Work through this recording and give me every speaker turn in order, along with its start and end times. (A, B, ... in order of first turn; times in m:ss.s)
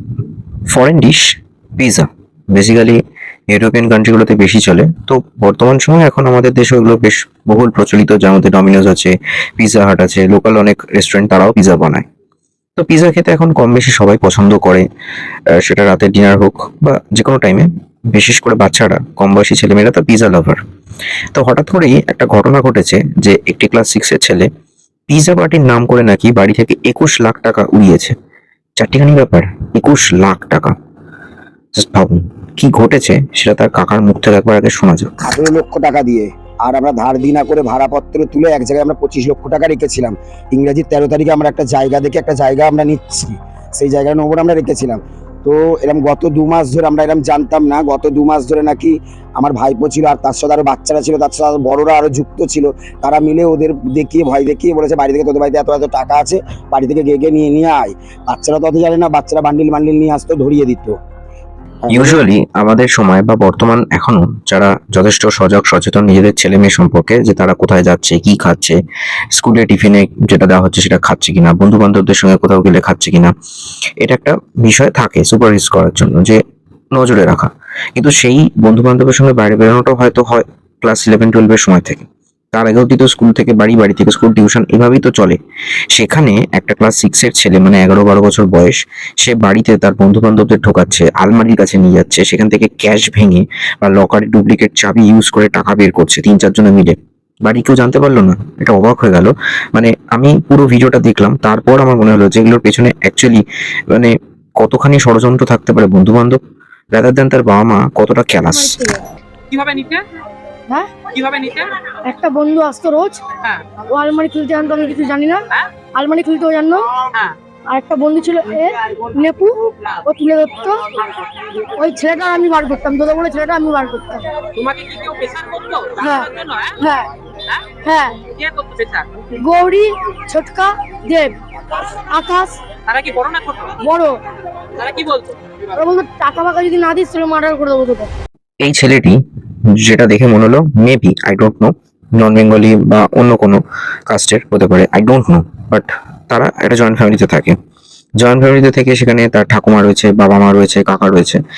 0:00.7-0:12.0 A
0:12.8-0:14.8 A
0:15.6-0:20.6 A
0:21.3-0:24.5 A
0:25.1-0:28.1 A
0:28.8-0:30.7 A
0:31.8-0:35.1 A
0:35.2-1:01.0 B
1:01.9-1:02.2 B
1:01.9-1:08.8 A
1:09.3-1:13.3 A
1:14.0-1:16.4 A
1:16.9-1:25.4 A
1:25.9-1:46.4 A
1:46.9-1:48.8 A
1:48.5-1:49.0 C
1:49.5-1:50.0 D
1:51.1-1:51.7 D
1:52.1-1:53.2 C
1:53.9-1:55.4 C
1:56.0-1:56.9 C
1:57.7-1:59.5 C
2:00.0-2:00.8 C
2:01.8-2:04.3 C
2:04.6-2:06.7 D
2:06.0-2:07.1 C
2:07.8-2:08.2 C
2:08.3-2:09.1 D
2:09.4-2:11.3 C
2:12.1-2:12.5 C
2:12.9-2:13.8 D
2:13.8-2:14.1 C
2:14.8-2:15.4 D
2:15.8-2:18.1 C
2:18.6-2:19.2 A
2:19.7-2:27.5 A
2:28.2-2:31.4 A